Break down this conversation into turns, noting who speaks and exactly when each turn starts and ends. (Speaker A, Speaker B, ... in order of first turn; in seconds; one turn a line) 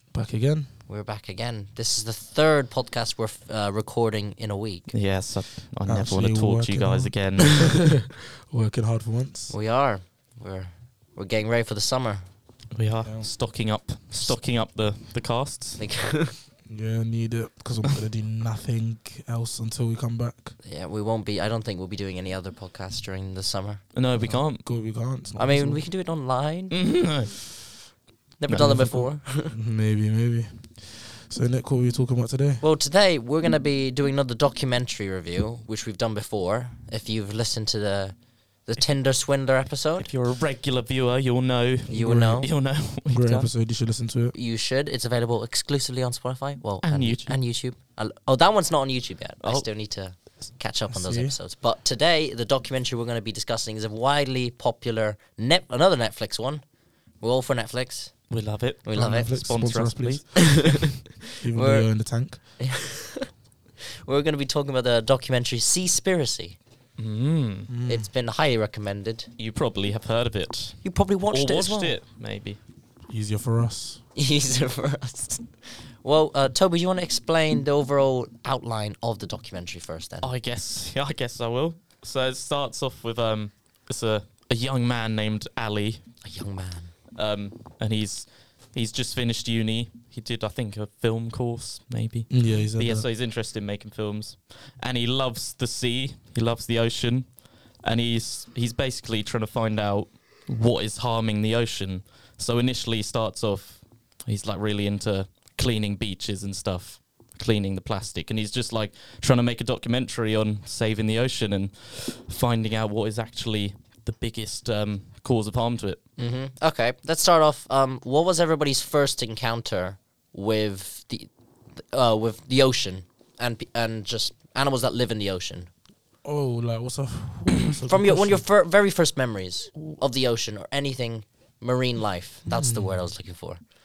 Speaker A: 0.1-0.7
Speaker B: 0.9-4.9
Speaker C: 4.9-7.7
Speaker A: 5.8-9.5
Speaker B: 9.5-12.2
Speaker C: 12.7-15.9
Speaker A: 13.0-13.3
Speaker B: 15.8-16.4
Speaker A: 16.6-20.5
Speaker B: 20.6-23.9
Speaker C: 23.9-24.6
Speaker A: 24.2-25.9
Speaker B: 25.4-26.8
Speaker C: 26.7-27.3
Speaker B: 28.4-29.5
Speaker A: 28.5-32.6
Speaker B: 32.6-38.1
Speaker B: 38.7-40.1
Speaker C: 40.0-43.5
Speaker B: 41.9-42.5
Speaker A: 41.9-44.3
Speaker B: 44.3-56.6
Speaker C: 46.8-47.4
Speaker C: 49.4-49.6
Speaker A: 50.9-51.4
Speaker B: 57.2-59.3
Speaker C: 58.3-60.4
Speaker A: 58.9-62.5
Speaker B: 60.4-61.9
Speaker B: 62.6-63.3
Speaker B: 64.0-66.6
Speaker C: 67.0-67.7
Speaker A: 67.7-68.1
Speaker B: 67.8-69.3
Speaker C: 69.4-72.6
Speaker B: 70.8-71.9
Speaker A: 73.1-74.0
Speaker B: 74.2-80.3
Speaker C: 80.2-86.0
Speaker B: 86.2-86.9
Speaker C: 87.1-116.0
Speaker A: 92.3-93.1
Speaker B: 116.2-125.7
Speaker A: 126.2-128.4
Speaker B: 127.9-133.6
Speaker A: 132.5-133.1